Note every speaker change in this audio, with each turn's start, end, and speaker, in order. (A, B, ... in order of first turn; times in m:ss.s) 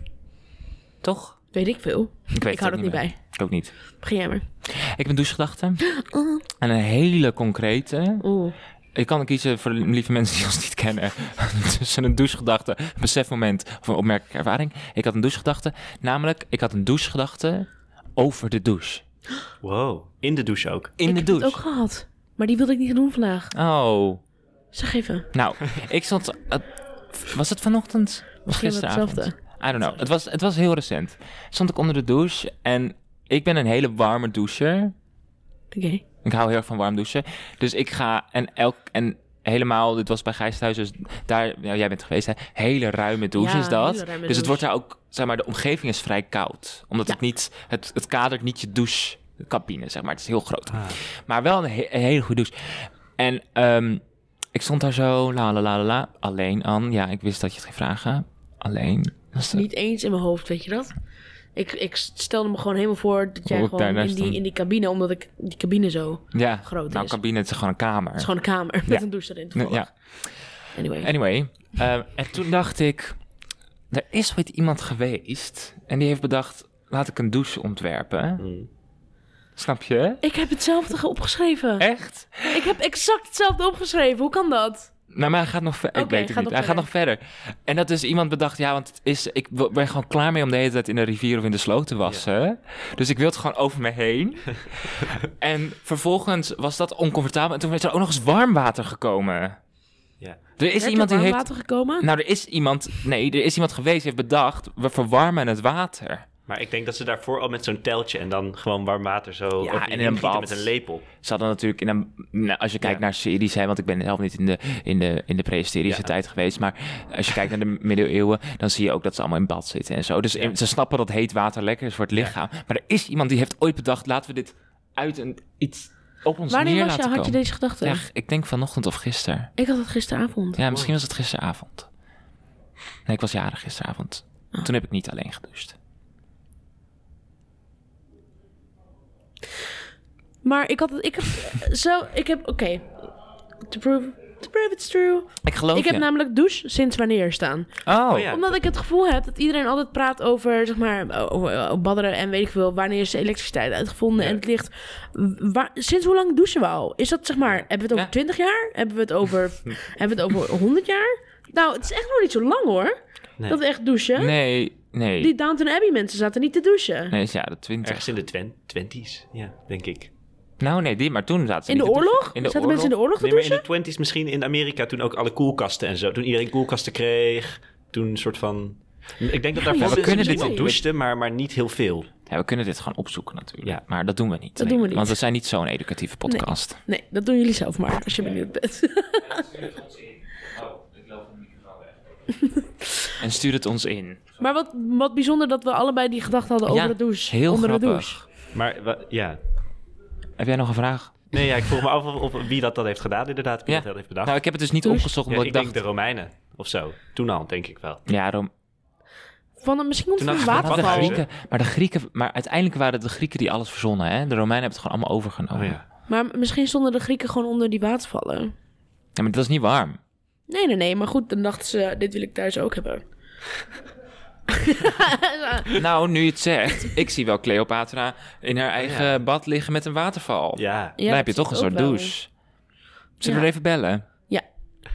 0:01.0-0:01.4 A
0:01.5-0:03.2 B
0:02.3-0:03.7 A
0:04.0-0:04.4 B
0:04.6-0:05.8 A
0:05.8-0:06.4 B
0:06.6-0:08.2 A
0:08.2-0:08.6 B
0:09.0-0:19.0 A
0:19.6-0:20.9 C
0:21.0-0:21.6 A
0:21.1-0:23.5 B
0:23.5-0:24.2 A
0:24.7-0:25.3 B
0:25.3-0:34.9 A
0:28.5-0:30.0 B
0:35.7-0:36.0 B
0:36.2-0:54.0 A
0:43.4-0:44.6 B
0:50.7-0:51.0 C
0:54.5-0:59.6 A
0:59.5-1:00.9 B
1:01.6-1:07.2 B
1:03.5-1:04.4 A
1:06.3-1:08.3 A
1:08.2-1:09.9 B
1:08.9-1:13.2 A
1:10.7-1:11.1 B
1:13.9-1:18.4 A
1:18.4-1:18.7 C
1:19.6-1:20.2 A
1:20.2-1:24.9 B
1:21.8-1:22.7 A
1:25.1-1:39.6 A
1:26.0-1:26.9 B
1:40.6-1:41.5 A
1:40.8-1:42.1 B
1:42.0-1:46.3 A
1:46.5-1:51.0 C
1:49.6-2:09.5 A
1:55.9-1:56.1 C
2:06.5-2:08.0 B
2:09.6-2:10.6 B
2:10.6-2:11.9 A
2:10.7-2:11.0 C
2:13.1-2:15.8 A
2:20.4-2:23.1 B
2:23.7-2:44.4 B
2:25.4-2:26.1 A
2:27.8-2:28.3 A
2:28.1-2:28.6 C
2:44.2-2:45.3 A
2:45.2-2:47.2 B
2:47.1-2:48.1 A
2:47.8-2:50.1 C
2:50.6-2:52.9 A
2:51.7-2:53.6 B
2:53.2-3:02.1 C
2:59.6-3:00.7 B
2:59.8-3:00.8 A
3:02.3-3:06.8 A
3:04.6-3:05.2 B
3:06.3-3:09.7 B
3:09.2-3:11.9 A
3:12.3-3:13.1 B
3:13.2-3:14.3 A
3:14.4-3:18.2 B
3:16.7-3:18.2 A
3:18.5-3:19.4 C
3:20.4-3:21.5 A
3:21.3-3:24.4 C
3:23.7-3:25.8 A
3:25.3-3:28.0 C
3:28.1-3:28.5 A
3:29.6-3:31.2 B
3:30.2-3:31.2 C
3:30.4-3:35.8 A
3:35.5-3:35.8 C
3:36.1-3:38.5 B
3:39.2-3:40.0 A
3:40.5-3:43.0 B
3:44.5-3:45.8 B
3:45.7-3:52.3 A
3:48.8-3:49.2 C
3:50.6-3:51.0 C
3:51.0-3:52.2 B
3:53.2-3:54.0 A